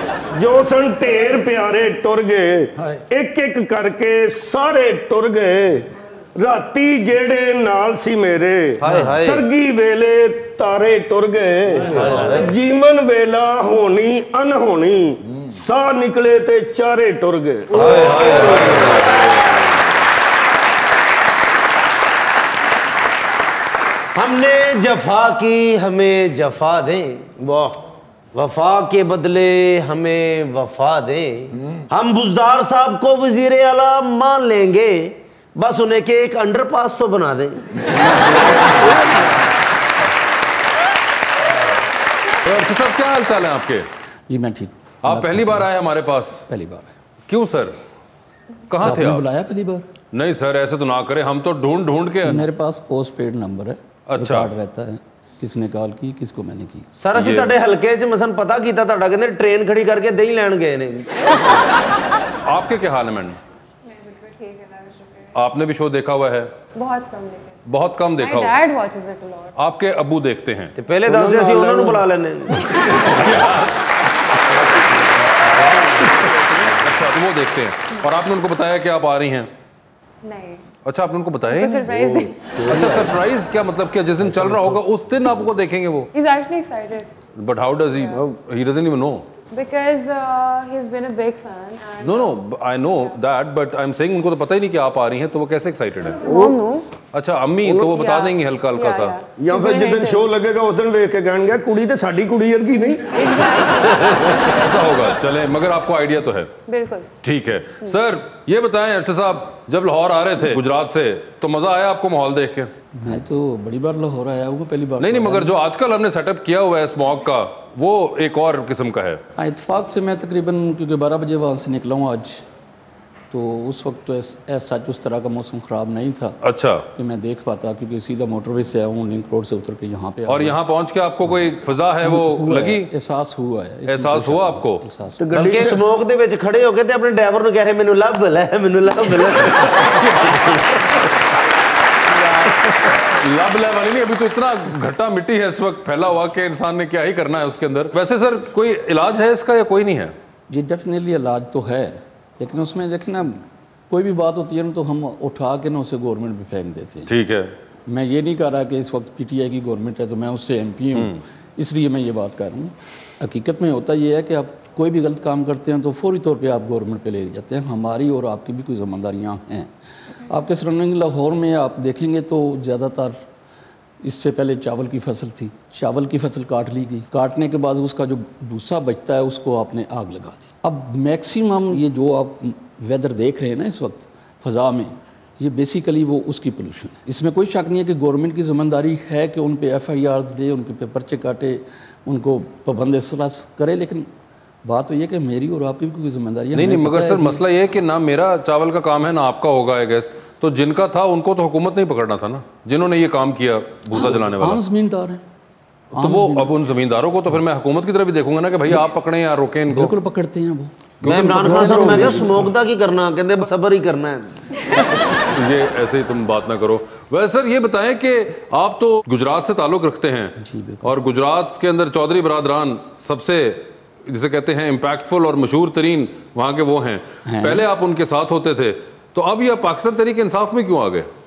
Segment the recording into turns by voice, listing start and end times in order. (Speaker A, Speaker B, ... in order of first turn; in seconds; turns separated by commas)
Speaker A: 0.3-5.8, Speaker A: 6.4-18.2, Speaker B: 8.8-9.4, Speaker B: 11.8-12.4, Speaker C: 11.9-12.5, Speaker C: 17.7-19.2, Speaker B: 17.7-19.5, Speaker C: 24.1-37.9, Speaker B: 42.4-43.9, Speaker D: 44.3-45.7, Speaker B: 45.0-46.4, Speaker D: 46.5-47.0, Speaker B: 47.3-47.8, Speaker B: 48.7-49.2, Speaker D: 48.8-49.9, Speaker B: 50.1-52.5, Speaker D: 52.2-56.9, Speaker B: 54.1-54.5, Speaker C: 57.0-61.6, Speaker B: 57.1-57.5, Speaker B: 62.5-63.4, Speaker E: 63.9-65.3, Speaker B: 65.3-66.5, Speaker E: 66.7-67.6, Speaker B: 67.7-68.5, Speaker E: 68.2-69.5, Speaker B: 69.6-70.7, Speaker C: 70.8-73.0, Speaker A: 71.0-72.0, Speaker B: 73.0-73.9, Speaker B: 76.8-79.5, Speaker E: 80.2-80.6, Speaker B: 80.8-82.0, Speaker E: 81.5-82.5, Speaker B: 82.6-86.1, Speaker E: 86.1-87.1, Speaker B: 87.3-89.3, Speaker E: 89.5-92.4, Speaker B: 92.0-96.2, Speaker E: 96.2-96.9, Speaker B: 97.1-99.2, Speaker E: 97.9-100.3, Speaker A: 99.4-103.1, Speaker E: 103.1-104.0, Speaker B: 103.7-106.5, Speaker E: 106.7-107.1, Speaker B: 107.2-112.7, Speaker D: 112.9-115.5, Speaker B: 115.0-119.2, Speaker D: 119.3-122.4, Speaker D: 123.3-126.4, Speaker B: 126.4-126.8, Speaker D: 126.9-130.6, Speaker B: 130.3-132.9, Speaker D: 131.3-135.6, Speaker B: 133.9-134.8, Speaker A: 135.2-135.8, Speaker C: 135.3-140.6, Speaker B: 142.9-150.1, Speaker D: 150.5-157.1, Speaker B: 157.1-157.5, Speaker D: 157.9-169.7, Speaker B: 160.9-161.2, Speaker D: 170.2-173.2, Speaker D: 174.0-194.1, Speaker D: 194.6-197.4, Speaker B: 196.5-204.6, Speaker D: 203.9-205.2, Speaker D: 205.9-206.6, Speaker B: 205.9-209.9, Speaker D: 209.7-212.5, Speaker C: 211.0-214.3, Speaker A: 211.4-212.4, Speaker B: 215.2-231.1, Speaker D: 220.4-220.9, Speaker D: 227.2-227.7